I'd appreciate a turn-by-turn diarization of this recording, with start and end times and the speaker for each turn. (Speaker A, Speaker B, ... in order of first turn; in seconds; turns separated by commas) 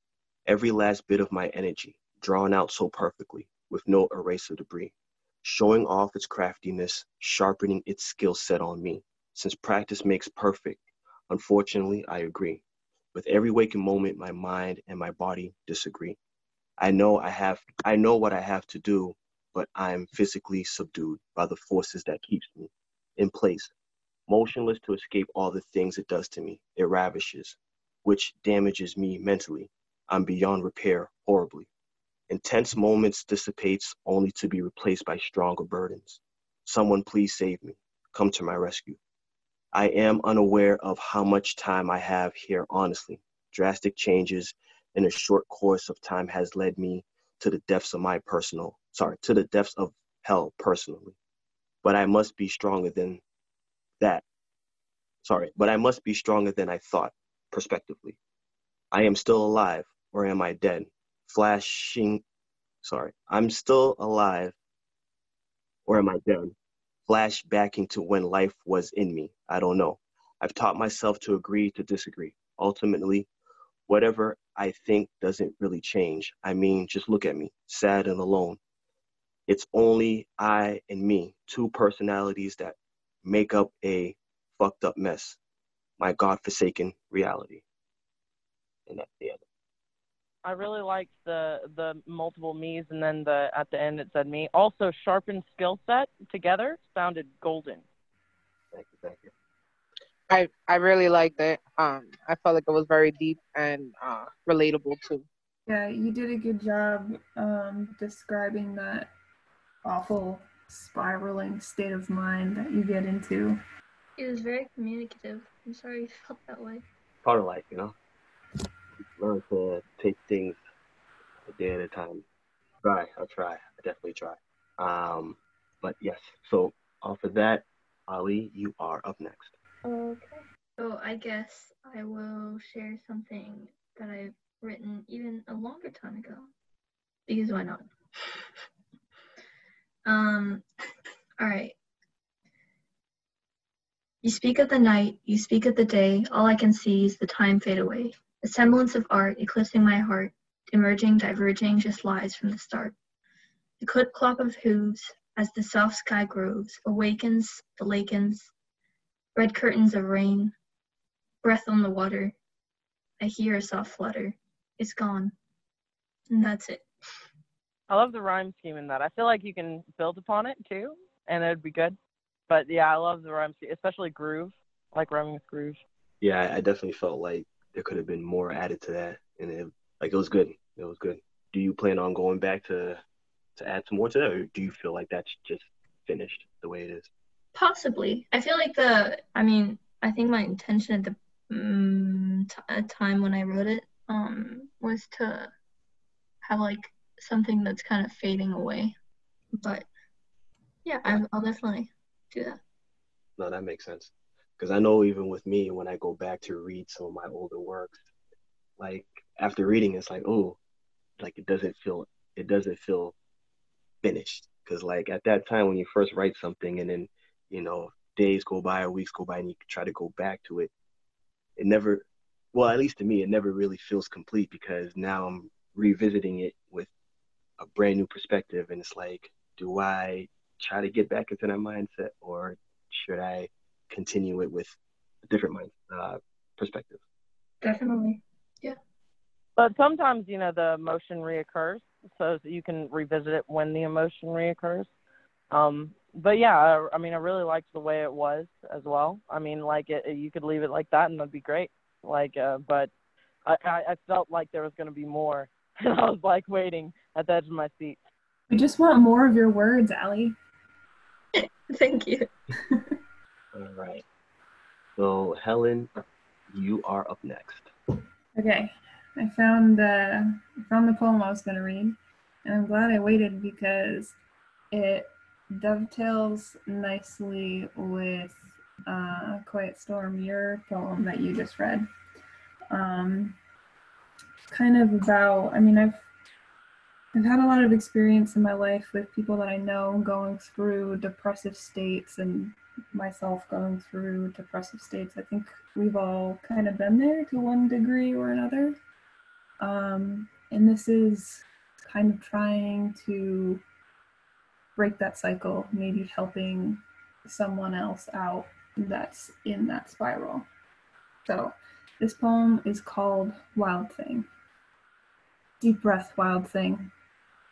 Speaker A: 0.5-12.6, Speaker A: 13.1-16.2, Speaker A: 16.8-23.7, Speaker A: 24.3-31.7, Speaker A: 32.3-39.0, Speaker A: 39.7-51.1, Speaker A: 51.8-53.2, Speaker A: 54.0-54.2, Speaker A: 55.2-58.2, Speaker A: 58.9-62.2, Speaker A: 62.8-64.5, Speaker A: 65.9-66.5, Speaker A: 67.1-73.3, Speaker A: 73.9-78.6, Speaker A: 79.5-85.4, Speaker A: 86.0-87.6, Speaker A: 88.9-89.4, Speaker B: 90.4-97.8, Speaker A: 98.7-99.3, Speaker C: 100.3-105.2, Speaker D: 105.7-109.1, Speaker D: 109.8-113.6, Speaker E: 114.2-116.8, Speaker A: 117.2-117.9, Speaker A: 119.2-120.6, Speaker A: 121.4-122.2, Speaker A: 122.8-129.5, Speaker E: 129.8-136.5, Speaker E: 137.3-138.4, Speaker E: 140.0-140.6, Speaker E: 141.4-141.7, Speaker E: 144.2-152.9, Speaker E: 153.8-158.5, Speaker E: 159.3-160.5, Speaker E: 161.4-162.3, Speaker E: 163.2-165.3, Speaker E: 166.3-166.8, Speaker B: 167.9-172.0, Speaker B: 172.5-175.8, Speaker A: 176.2-183.0, Speaker A: 183.6-187.1, Speaker E: 187.5-195.5, Speaker E: 196.4-198.9, Speaker E: 199.6-199.9, Speaker E: 200.8-202.6, Speaker A: 203.4-208.0, Speaker A: 208.8-210.6, Speaker A: 211.2-213.1, Speaker A: 214.0-220.7, Speaker A: 221.6-226.9, Speaker A: 227.6-237.0, Speaker E: 237.6-238.8, Speaker B: 239.6-244.9, Speaker B: 245.5-252.9, Speaker B: 253.4-258.0, Speaker D: 258.5-260.4, Speaker E: 261.4-262.3, Speaker D: 262.7-262.9, Speaker A: 263.5-264.0, Speaker A: 265.0-265.9, Speaker A: 266.5-267.7, Speaker D: 268.4-274.1, Speaker D: 274.7-281.9, Speaker D: 282.7-283.4, Speaker D: 284.5-286.1, Speaker D: 287.1-298.8, Speaker D: 299.6-303.6, Speaker D: 304.8-310.5, Speaker D: 311.2-314.3, Speaker D: 315.6-316.9